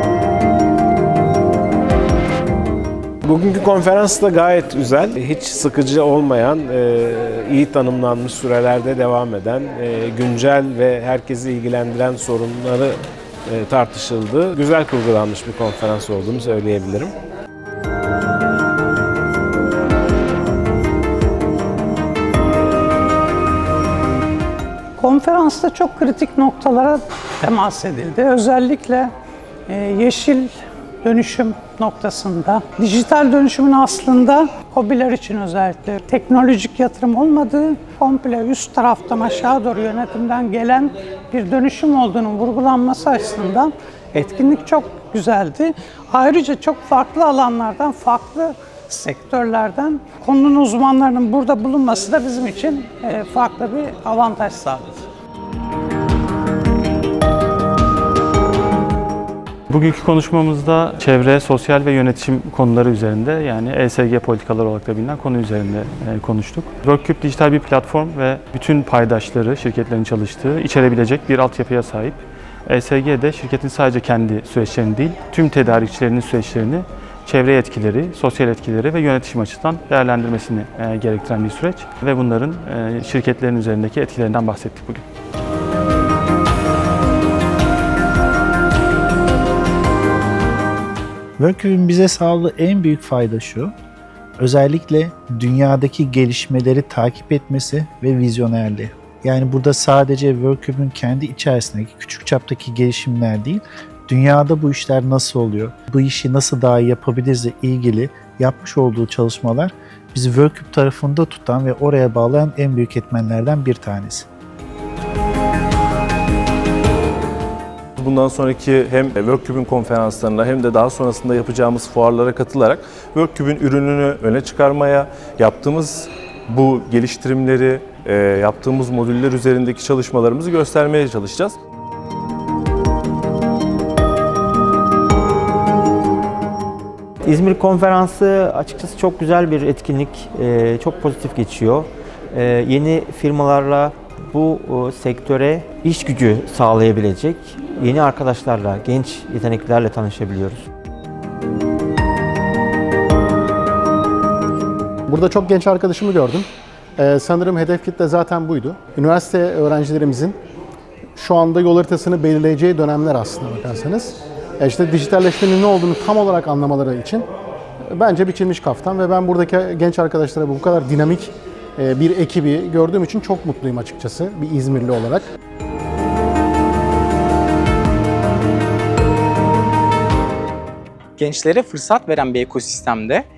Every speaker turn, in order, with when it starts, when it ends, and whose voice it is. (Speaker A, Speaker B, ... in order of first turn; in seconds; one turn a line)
Speaker A: 3.2-17.1
Speaker B: 25.0-29.1
Speaker B: 29.7-30.5
Speaker B: 31.0-54.9
Speaker C: 59.7-85.0
Speaker D: 91.4-93.7
Speaker D: 94.4-114.3
Speaker E: 118.0-131.6
Speaker F: 137.3-141.8
Speaker F: 142.6-150.5
Speaker G: 155.1-156.4
Speaker G: 157.0-160.3
Speaker G: 161.2-167.2
Speaker G: 167.9-175.2
Speaker H: 181.2-183.2